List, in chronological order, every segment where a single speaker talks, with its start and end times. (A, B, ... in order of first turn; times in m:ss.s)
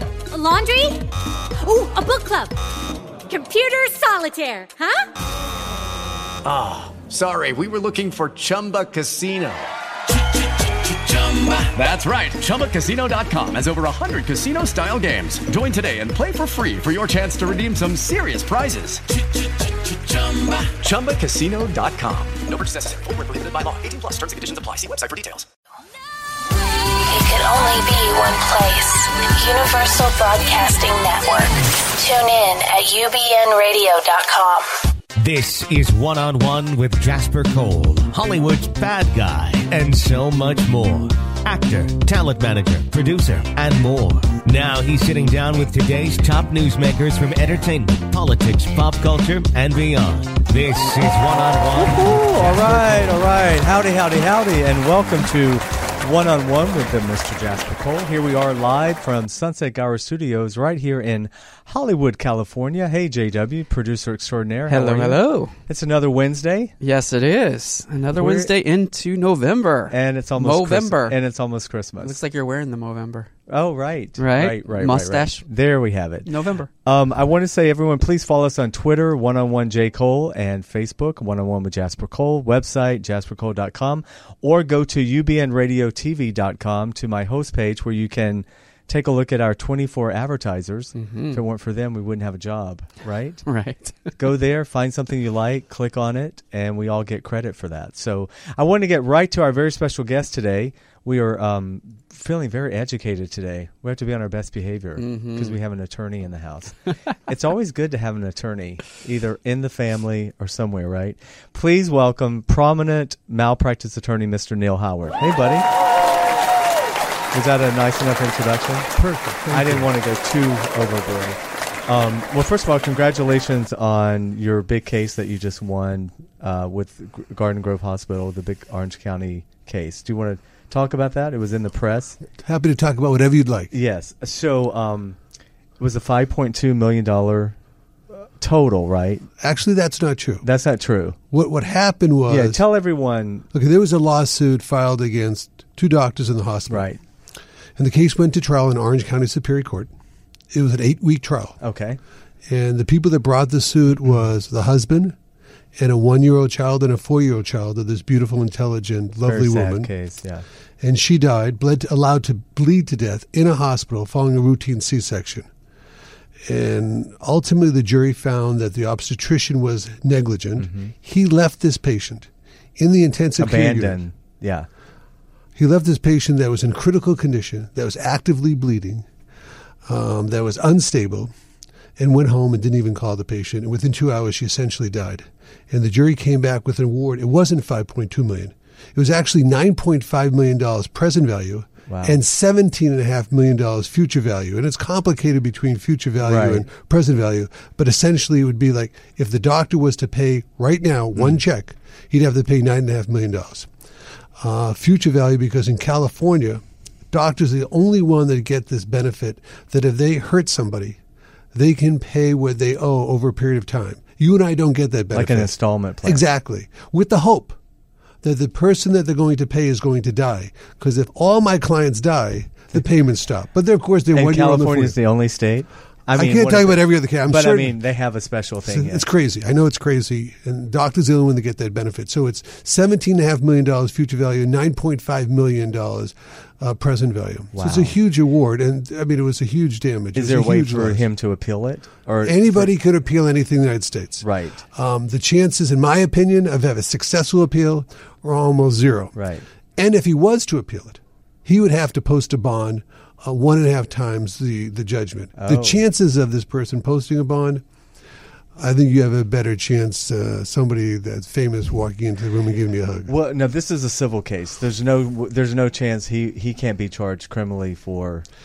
0:00.3-0:01.0 A
0:01.6-0:02.5 A
0:03.3-0:05.0 A
0:06.7-0:09.6 B
0:11.8-0:19.0 B
0:20.9-0:25.4 B
0:27.0-0:34.7 C
0:35.2-0:53.1 D
0:51.8-1:06.7 E
1:04.7-1:05.5 F
1:06.8-1:11.2 F
1:08.2-1:08.5 E
1:09.9-1:12.2 E
1:12.0-1:13.3 F
1:13.5-1:16.3 E
1:14.2-1:15.5 F
1:16.2-1:16.7 F
1:16.8-1:33.5 E
1:31.0-1:31.4 F
1:33.4-1:34.2 F
1:34.2-1:55.7 E
1:45.0-1:45.6 F
1:57.3-1:58.9 E
1:59.0-1:59.9 G
1:59.5-2:12.2 E
2:12.4-2:13.7 G
2:13.7-2:15.2 E
2:15.8-2:17.6 E
2:18.1-2:19.2 E
2:19.4-2:20.4 G
2:20.4-2:21.2 E
2:21.3-2:22.6 G
2:22.3-2:23.4 E
2:23.5-2:26.9 G
2:26.7-2:27.0 E
2:27.8-2:29.9 G
2:30.5-2:31.6 G
2:31.6-2:32.0 E
2:32.5-2:35.2 G
2:35.8-2:39.9 G
2:39.3-2:40.4 E
2:40.8-2:45.5 G
2:46.5-2:54.0 G
2:50.6-2:50.9 E
2:53.4-2:54.7 E
2:55.6-2:59.1 G
2:59.8-3:01.3 G
3:02.0-3:23.7 G
3:11.9-3:12.2 E
3:16.2-3:16.7 E
3:24.4-3:31.0 G
3:31.5-3:37.6 G
3:35.1-3:36.2 E
3:38.2-3:45.0 G
3:44.1-3:49.0 E
3:46.1-3:47.8 G
3:48.7-4:01.1 G
3:57.5-3:57.9 E
4:00.2-4:02.7 E
4:02.2-4:09.2 G
4:04.2-4:04.6 E
4:09.2-4:09.4 E
4:09.8-4:17.6 G
4:15.4-4:15.8 E
4:18.6-4:23.1 G
4:23.1-4:28.2 E